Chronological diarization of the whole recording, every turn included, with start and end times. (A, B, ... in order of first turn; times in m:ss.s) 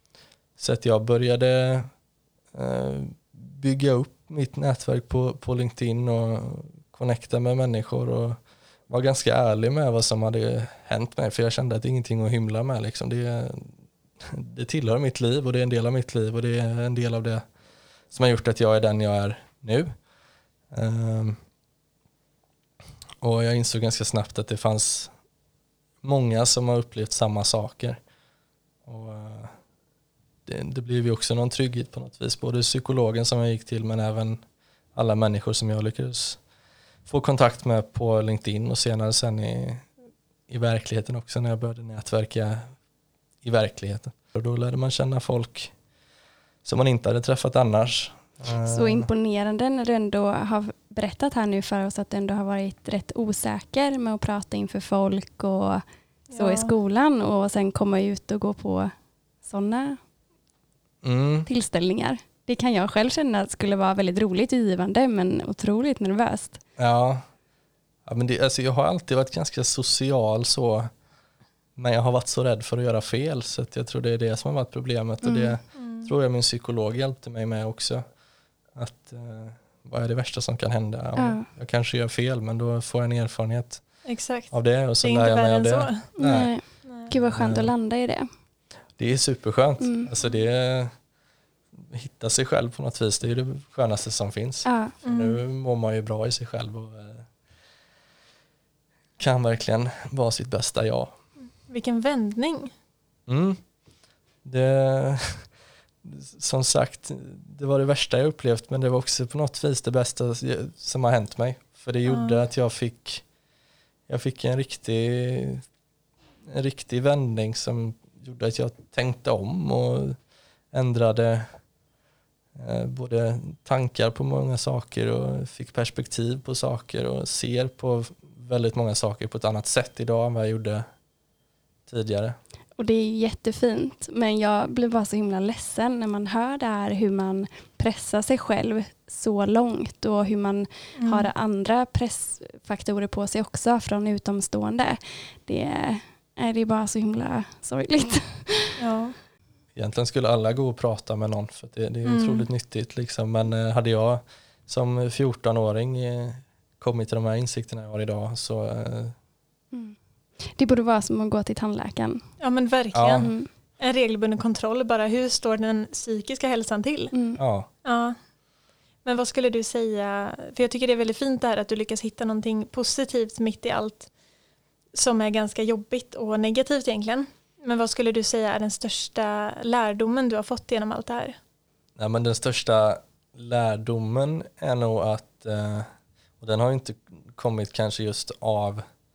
0:00.6-0:01.9 A
0:02.5-0:17.4 A
0:18.1-0:19.9 A
0:20.7-0:21.4 A
0:23.2-0:25.1 A
0:26.0-0:28.0 A
0:28.8-0:29.5 A
0:30.4-0:34.4 A
0:34.9-0:36.4 A
0:37.1-0:39.9 A
0:40.5-0:42.7 A
0:43.4-0:45.7 A
0:46.6-0:49.1 A
0:48.6-0:55.8 B
0:56.3-0:56.7 C
0:56.4-1:00.0 B
1:01.0-1:01.5 A
1:01.5-1:06.6 B
1:06.8-1:07.2 A
1:08.0-1:10.9 A
1:11.8-1:18.0 A
1:15.2-1:15.6 B
1:15.8-1:16.1 C
1:18.7-1:23.8 A
1:21.2-1:21.5 B
1:24.0-1:26.1 C
1:24.5-1:26.5 A
1:26.2-1:28.3 B
1:27.1-1:27.7 A
1:29.0-1:30.9 A
1:29.8-1:30.1 B
1:31.8-1:37.3 A
1:34.6-1:34.9 B
1:35.0-1:35.4 C
1:39.2-1:41.1 A
1:41.7-1:42.7 C
1:43.3-1:43.6 A
1:44.4-1:45.5 A
1:46.0-1:53.2 A
1:52.0-1:52.4 C
1:54.1-1:55.6 A
1:56.4-2:00.2 A
2:00.7-2:01.6 A
2:02.5-2:10.8 A
2:11.8-2:12.4 A
2:12.8-2:28.7 B
2:21.0-2:21.3 C
2:28.8-2:29.1 C
2:29.7-2:39.1 A
2:32.0-2:32.5 C
2:39.7-2:42.2 B
2:42.4-2:47.1 C
2:42.9-2:43.3 A
2:43.1-2:43.5 B
2:47.1-2:47.4 B
2:47.4-2:47.7 A
2:47.8-2:48.2 C
2:49.0-2:54.1 C
2:54.9-3:01.4 C
3:02.0-3:05.9 A
3:06.4-3:08.8 A